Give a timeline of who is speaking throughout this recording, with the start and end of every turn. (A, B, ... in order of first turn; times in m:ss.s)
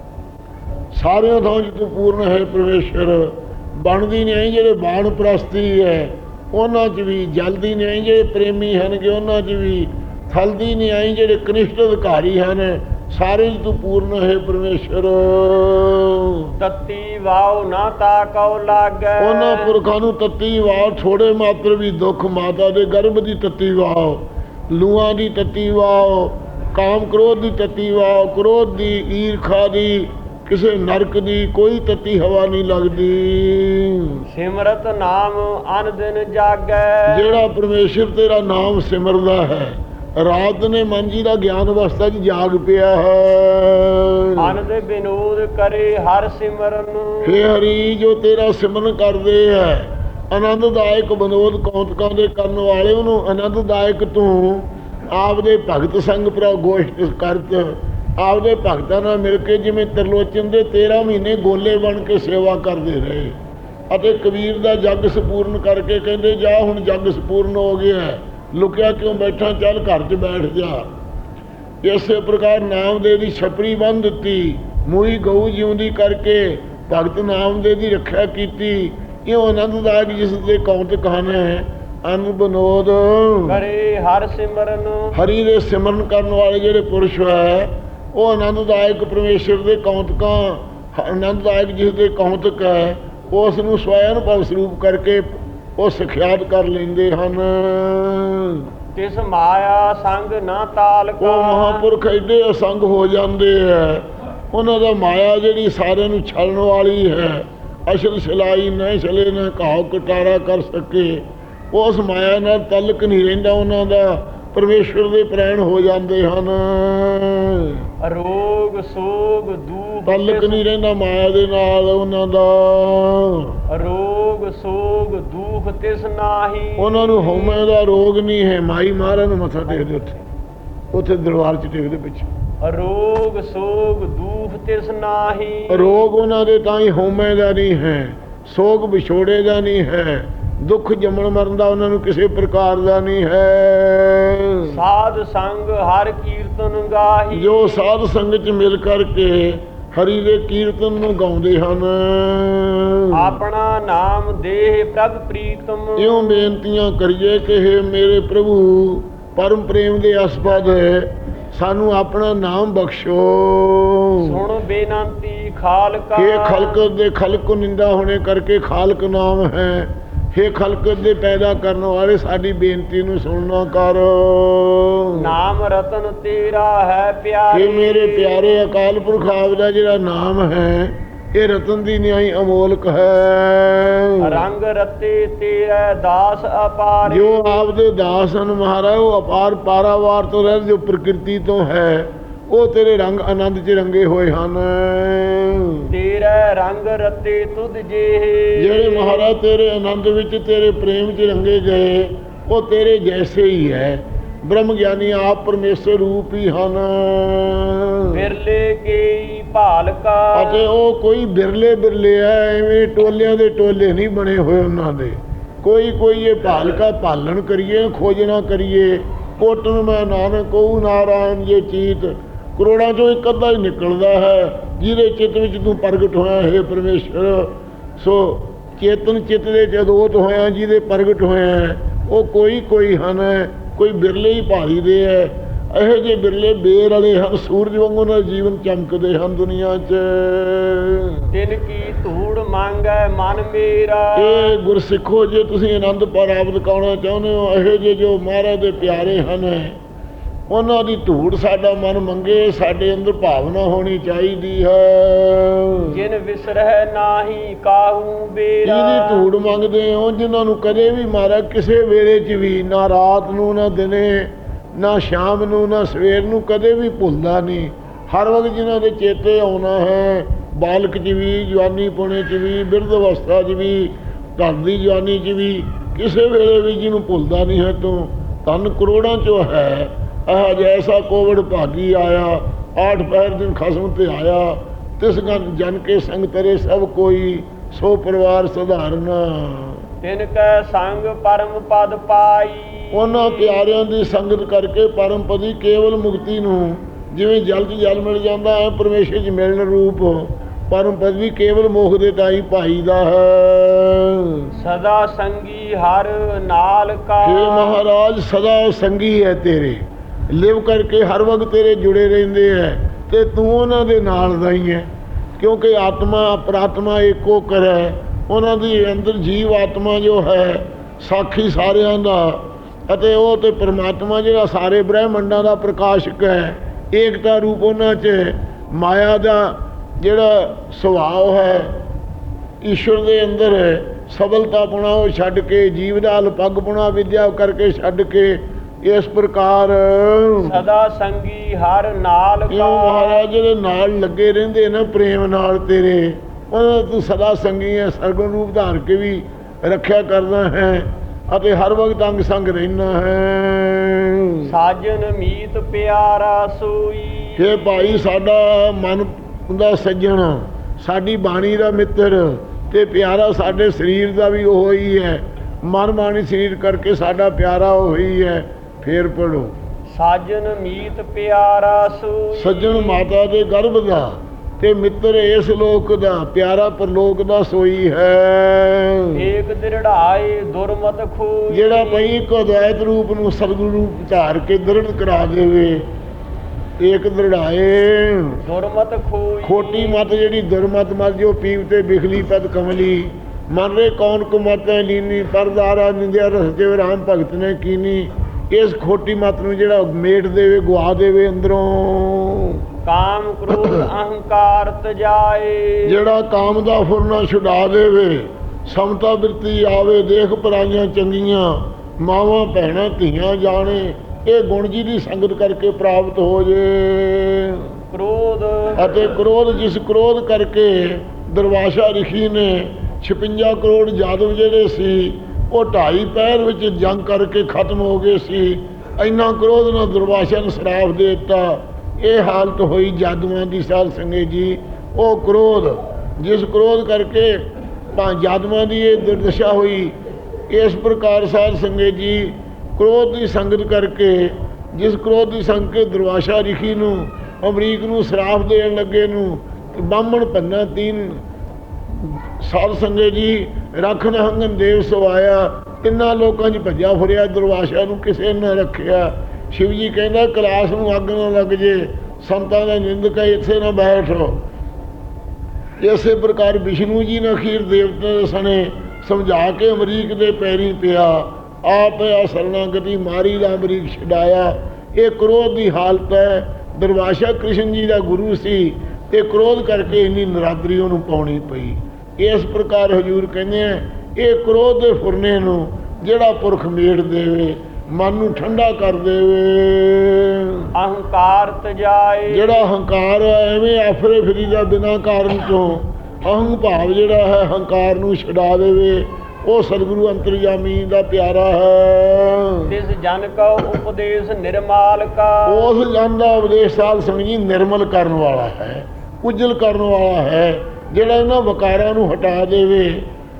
0:00.9-0:16.5 A
0:16.6-0:19.7 B
0:19.2-0:34.2 A
0:34.3-0:37.4 B
0:37.1-0:44.6 A
0:44.4-0:47.4 B
0:47.2-1:03.3 A
1:03.9-1:10.8 A
1:11.8-1:23.6 A
1:23.5-1:25.2 B
1:25.1-1:35.2 A
1:35.8-1:38.7 A
1:38.9-1:41.9 B
1:41.2-1:57.9 A
1:58.0-2:00.6 B
2:00.1-2:03.6 A
2:03.7-2:07.6 B
2:06.8-2:10.2 A
2:10.9-2:12.3 A
2:12.6-2:16.0 B
2:15.7-2:24.8 A
2:24.7-2:27.9 B
2:27.3-2:33.4 A
2:33.1-2:36.4 B
2:36.0-2:44.4 A
2:44.2-2:46.8 B
2:46.2-2:55.2 A
2:55.1-2:58.6 B
2:57.5-3:04.5 A
3:04.2-3:07.5 B
3:07.1-3:15.9 A
3:15.9-3:19.3 B
3:18.6-3:28.2 A
3:28.1-3:30.6 B
3:30.3-4:01.3 A
4:01.3-4:04.5 B
4:04.2-4:09.8 A
4:10.5-4:16.0 A
4:15.9-4:19.3 B
4:18.6-4:49.8 A
4:50.0-4:53.6 B
4:52.9-5:04.5 A
5:04.6-5:07.8 B
5:07.2-5:31.7 A
5:32.6-5:40.6 A
5:40.4-5:43.2 B
5:42.5-5:54.5 A
5:54.4-5:58.0 B
5:57.4-6:09.5 A
6:09.9-6:13.1 B
6:12.3-6:19.2 A
6:19.1-6:22.1 B
6:21.5-6:25.9 A
6:26.8-6:28.4 A
6:28.4-6:30.1 B
6:29.4-6:42.6 A
6:42.8-6:46.0 B
6:43.5-6:43.8 A
6:45.8-6:57.7 A
6:57.9-6:58.9 B
6:58.8-7:17.4 A
7:17.9-7:19.9 A
7:20.5-7:31.2 A
7:31.9-7:44.4 A
7:45.8-8:10.7 A
8:10.7-8:12.7 B
8:12.3-8:22.7 A
8:22.7-8:25.7 B
8:25.5-8:33.0 A